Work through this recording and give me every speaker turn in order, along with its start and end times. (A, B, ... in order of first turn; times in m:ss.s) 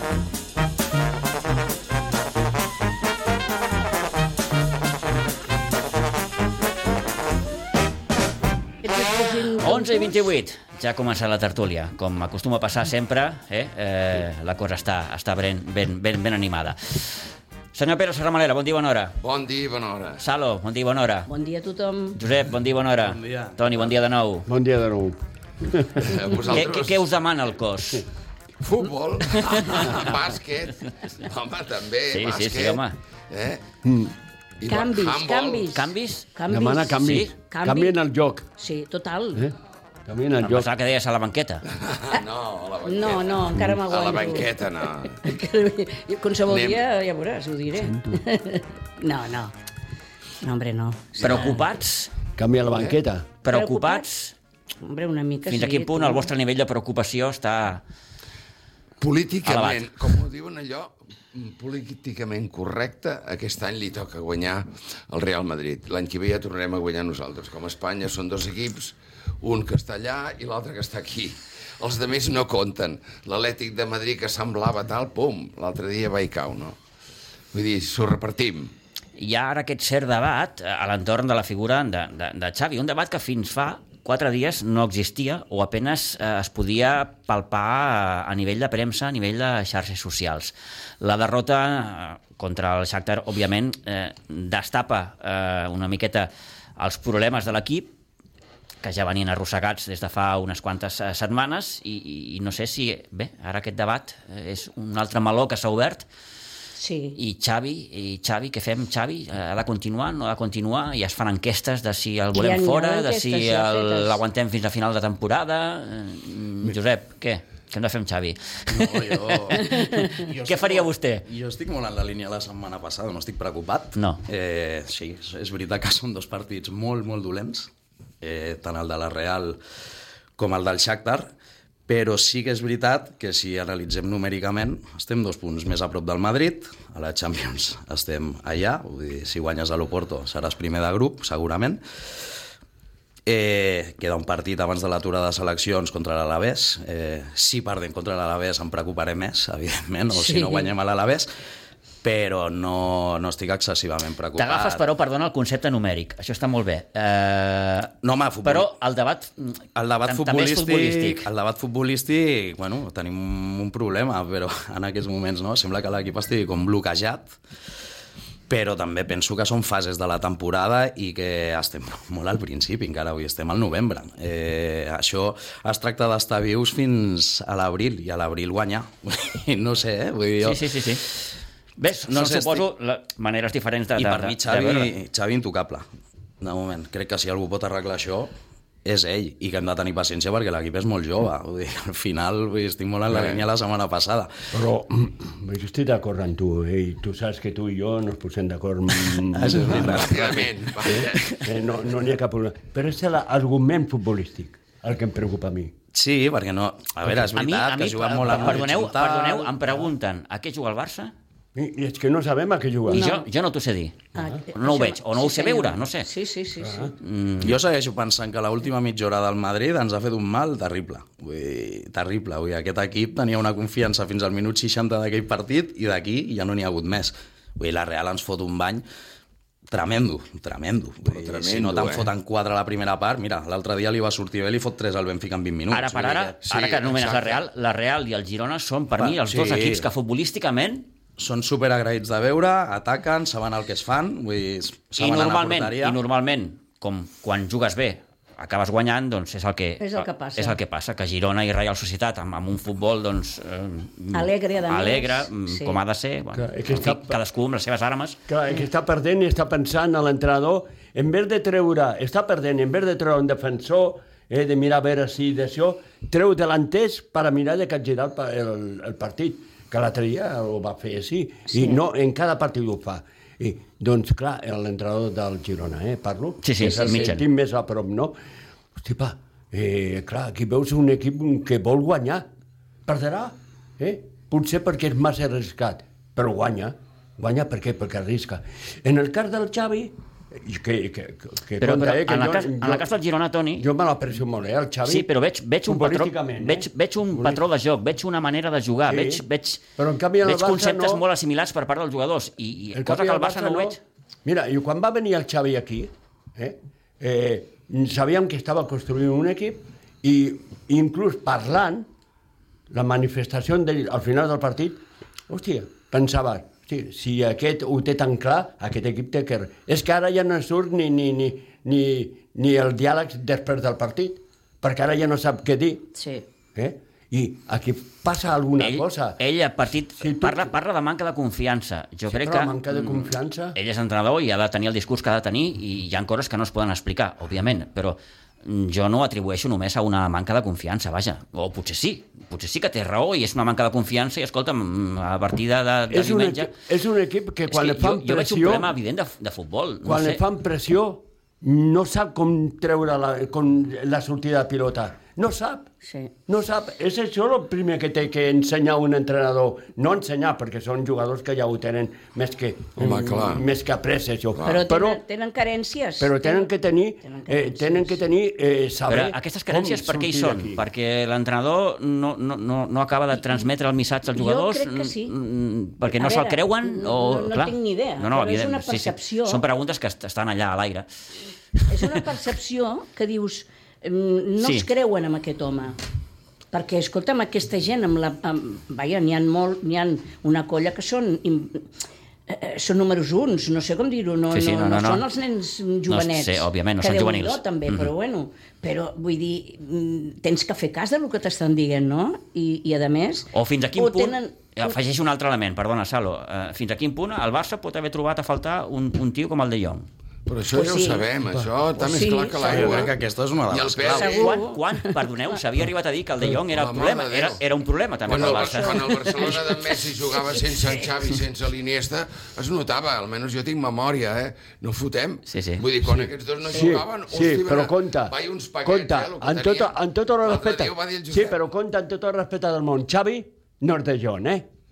0:08.8-0:10.2 A
0:09.6-0:17.1 B
0:17.7-0:19.1 B
0:19.2-0:20.2 C
0:20.2-0:21.3 B
0:21.3-0:22.2 A
0:22.2-0:24.5 B
0:23.0-0:23.9 D
0:24.5-0:26.2 E
0:26.0-0:27.0 C
0:26.4-0:28.0 B
0:28.6-0:33.6 C
0:29.3-0:30.1 B
0:32.1-0:32.9 B
0:33.8-0:34.1 E
0:34.6-0:35.7 C
0:34.6-0:38.0 A
0:35.7-0:36.3 B
0:36.5-0:38.5 E
0:37.0-0:37.3 B
0:38.6-0:39.5 A
0:40.0-0:40.7 E
0:40.4-0:41.6 B
0:41.7-0:45.2 C
0:42.8-0:49.5 A
0:46.5-0:46.8 C
0:50.4-0:51.6 A
0:51.2-0:52.1 B
0:52.4-0:53.3 E
0:52.7-0:53.0 C
0:53.4-0:54.3 B
0:53.5-0:54.1 A
0:54.8-0:56.3 A
0:55.5-0:57.8 B
0:59.0-1:16.8 C
0:59.4-0:59.9 B
1:17.5-1:18.7 C
1:19.2-1:37.9 B
1:38.8-1:46.0 B
1:46.8-1:47.2 A
1:47.2-2:01.2 B
1:52.3-1:54.2 A
1:58.7-2:07.7 D
1:59.5-2:00.2 A
2:04.0-2:04.2 B
2:08.2-2:09.6 D
2:10.4-2:11.3 D
2:11.9-2:21.8 D
2:23.2-2:31.3 D
2:30.1-2:30.7 A
2:32.0-2:34.8 D
2:34.3-2:41.3 B
2:38.0-2:38.7 D
2:39.7-2:47.4 D
2:48.5-3:00.7 D
3:00.4-3:01.0 B
3:01.8-3:04.9 B
3:02.1-3:02.6 D
3:04.0-3:05.9 D
3:06.4-3:08.3 D
3:08.8-3:14.3 D
3:13.1-3:13.4 C
3:14.5-3:20.2 E
3:19.1-3:21.5 D
3:19.6-3:21.3 C
3:20.8-3:25.7 E
3:25.9-3:29.5 D
3:27.1-3:31.1 B
3:28.3-3:28.6 E
3:31.5-3:33.0 E
3:32.9-3:36.1 B
3:32.9-3:33.2 A
3:34.1-3:36.9 A
3:36.6-3:36.9 E
3:37.0-3:37.6 B
3:37.4-3:48.8 D
3:49.7-3:56.4 D
3:51.1-3:52.1 C
3:55.7-4:00.9 B
3:56.4-3:57.4 C
3:59.0-3:59.8 D
4:01.2-4:06.0 D
4:05.0-4:18.2 B
4:09.8-4:10.6 A
4:14.1-4:15.8 A
4:16.3-4:17.2 E
4:18.3-4:38.1 E
4:31.5-4:31.8 A
4:36.4-4:37.2 B
4:38.8-4:42.3 E
4:42.8-4:52.9 E
4:51.6-4:53.7 B
4:53.6-4:55.1 E
4:54.8-4:59.6 B
4:55.6-4:57.4 E
4:58.9-4:59.2 E
4:59.8-5:01.0 E
5:00.2-5:03.8 B
5:02.7-5:11.9 E
5:12.7-5:25.9 E
5:26.0-5:26.2 A
5:26.5-5:29.2 E
5:28.6-5:46.5 B
5:30.0-5:30.5 E
5:32.1-5:33.6 E
5:45.9-5:48.7 E
5:47.5-5:50.2 B
5:49.8-5:55.7 E
5:55.8-5:56.1 A
5:56.3-6:05.0 E
6:02.8-6:03.4 C
6:04.3-6:04.6 C
6:04.4-6:06.5 A
6:06.0-6:10.6 E
6:07.0-6:07.9 A
6:08.9-6:20.9 B
6:13.1-6:13.4 A
6:14.1-6:15.1 A
6:15.8-6:19.4 A
6:21.7-6:25.8 A
6:21.7-6:22.0 B
6:24.4-6:24.7 B
6:26.5-6:31.7 A
6:32.3-6:44.8 A
6:34.3-6:35.0 B
6:35.9-6:37.9 B
6:43.3-6:49.9 B
6:50.2-6:52.9 C
6:50.5-6:51.0 A
6:51.8-6:52.9 A
6:52.4-6:54.2 D
6:53.5-6:54.4 C
6:53.9-6:55.1 A
6:54.1-6:59.3 B
6:56.5-6:57.4 C
6:58.1-7:11.4 C
6:58.1-7:00.8 A
7:05.3-7:05.6 B
7:05.8-7:14.5 E